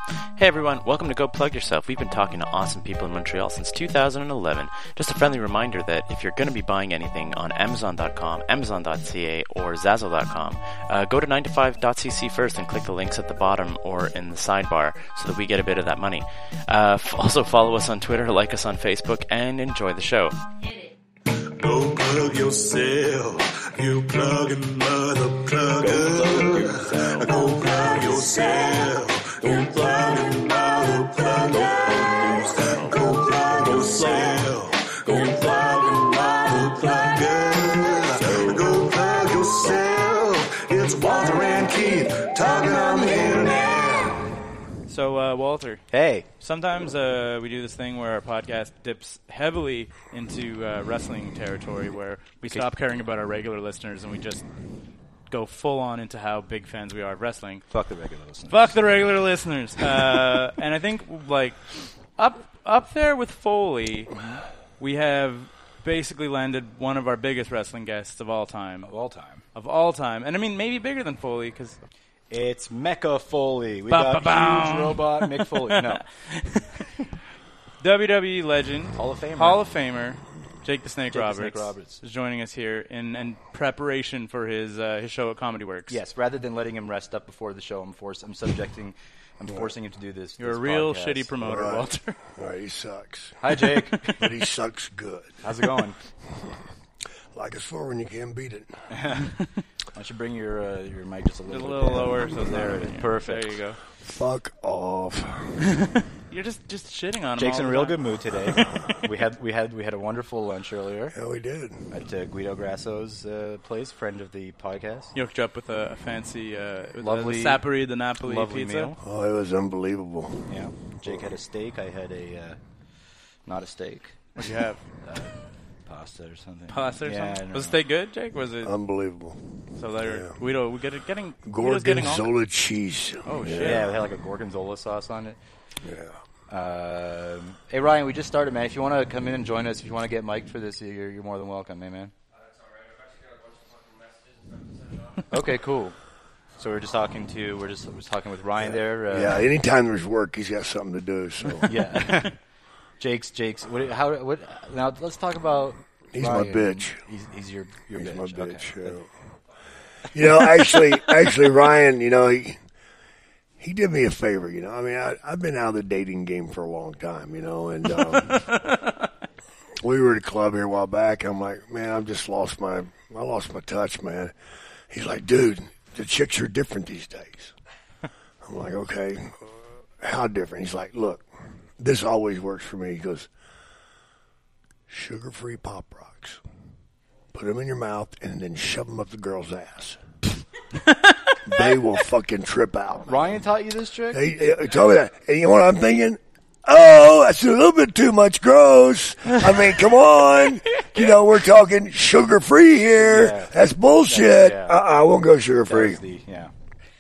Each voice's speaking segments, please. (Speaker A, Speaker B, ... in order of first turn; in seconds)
Speaker A: 0.4-20.4
Speaker B: 21.6-44.0
Speaker C: 23.9-25.1, 25.9-26.5, 27.3-31.5, 32.9-44.0, 89.5-89.7, 91.4-95.5, 97.3-98.7, 104.0-105.8, 108.5-109.0, 111.1-111.9, 119.0-121.3, 128.6-129.5, 130.0-130.4, 131.5-133.9, 135.8-136.2, 148.6-151.8, 156.1-157.0, 157.9-159.1, 160.1-162.6, 163.6-168.5, 169.8-174.3, 174.9-177.5, 178.4-181.3, 181.8-183.3, 184.9-186.4, 187.3-190.0, 191.4-193.5, 194.1-206.0
Speaker D: 44.9-45.9, 46.4-54.5, 55.3-57.7, 58.5-64.2, 64.8-68.9, 69.5-71.8, 73.9-76.9, 77.8-86.0, 90.4-92.2, 93.9-94.2, 101.5-103.8, 106.3-108.0, 115.2-118.9, 124.4-124.8, 126.7-128.7, 129.8-132.3, 133.2-133.9
Speaker E: 45.9-46.3, 57.7-59.2, 68.8-69.4, 72.3-76.0, 79.0-79.7, 81.1-82.0, 85.9-91.4, 93.4-94.2, 95.4-96.0, 98.9-103.6, 107.4-111.2, 111.9-115.1, 117.0-117.7, 118.2-119.0, 120.5-122.6, 123.5-124.5, 125.0-127.8, 133.6-135.4, 136.5-142.1, 145.3-146.0, 146.6-149.4, 151.6-152.4, 153.0-159.0, 193.1-194.3, 203.0-204.8, 205.6-206.5